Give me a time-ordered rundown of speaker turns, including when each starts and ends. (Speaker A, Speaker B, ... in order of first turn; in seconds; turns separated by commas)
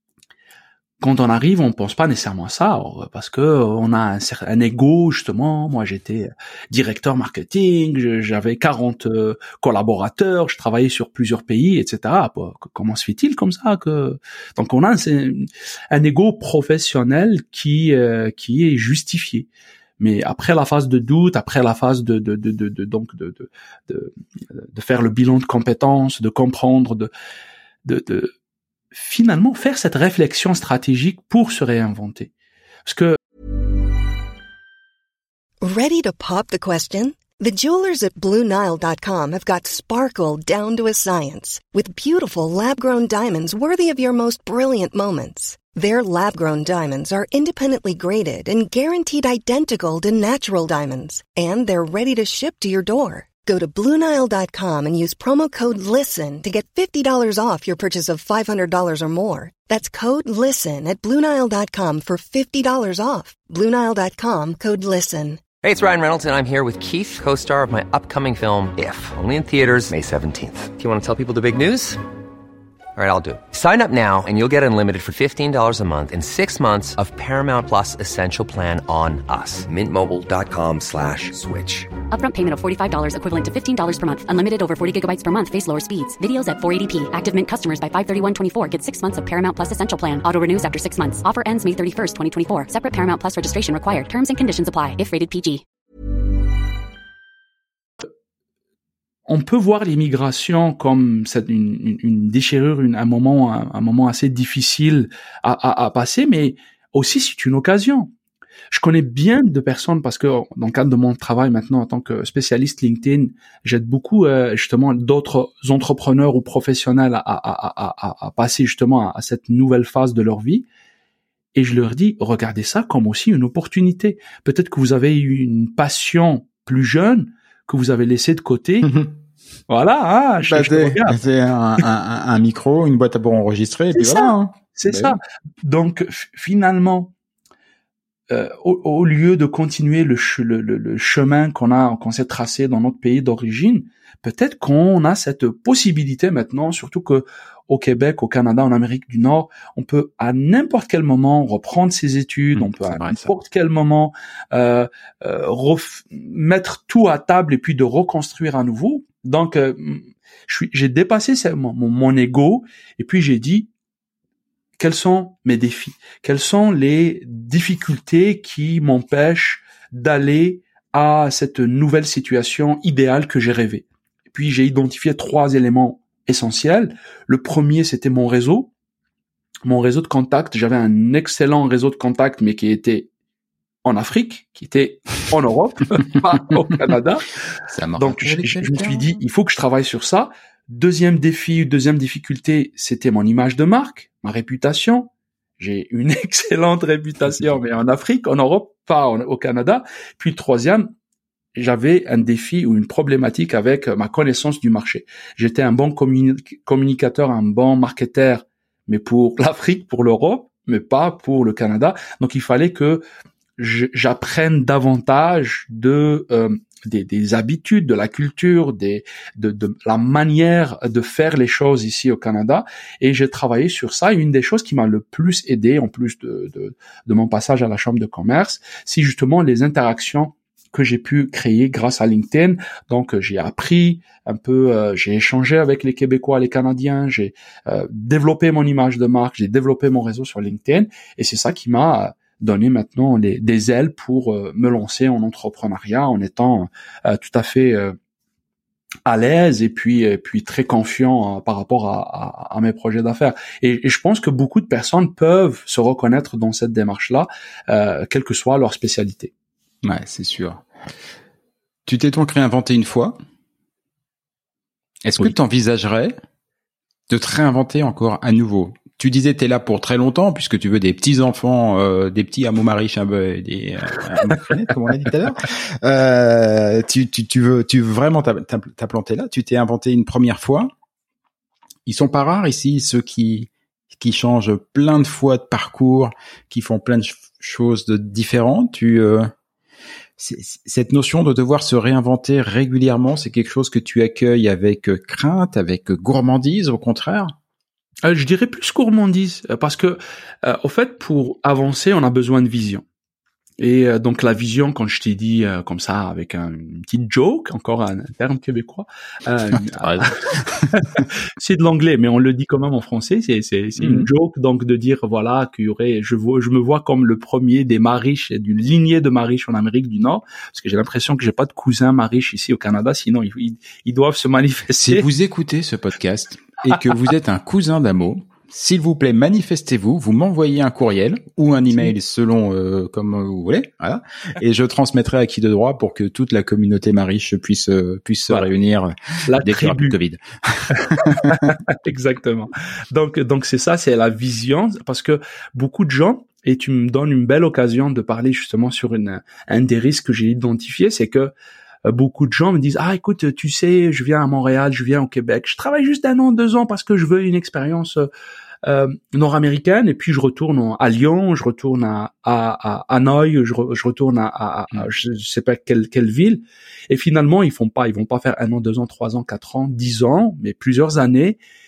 Speaker A: 1.0-19.5, Speaker A: 20.0-27.1, Speaker A: 27.8-28.3, Speaker A: 28.9-32.3, Speaker A: 32.8-33.2, Speaker B: 35.6-65.4, Speaker C: 65.6-72.0, Speaker C: 73.0-81.9, Speaker D: 82.1-95.6, Speaker A: 99.3-108.1, Speaker A: 108.7-120.7, Speaker A: 121.5-128.9, Speaker E: 128.8-129.1, Speaker A: 129.7-131.2, Speaker E: 130.4-135.2, Speaker A: 133.9-137.1, Speaker A: 138.3-163.7, Speaker E: 152.5-153.3, Speaker A: 164.8-178.7, Speaker A: 179.7-183.1, Speaker A: 183.8-187.3, Speaker E: 187.7-189.1, Speaker A: 188.0-200.9, Speaker A: 201.6-213.0, Speaker A: 213.6-247.9, Speaker A: 249.1-259.3, Speaker E: 259.8-260.6, Speaker E: 261.9-263.1, Speaker E: 265.0-266.1, Speaker E: 267.1-280.7, Speaker E: 281.9-289.3, Speaker E: 290.2-297.3, Speaker A: 298.0-302.8, Speaker A: 303.6-310.1, Speaker E: 309.8-311.0, Speaker A: 310.7-325.1, Speaker E: 313.8-314.1, Speaker E: 324.8-341.5, Speaker A: 339.3-340.0, Speaker A: 340.9-351.3, Speaker A: 351.8-358.1, Speaker A: 358.6-371.4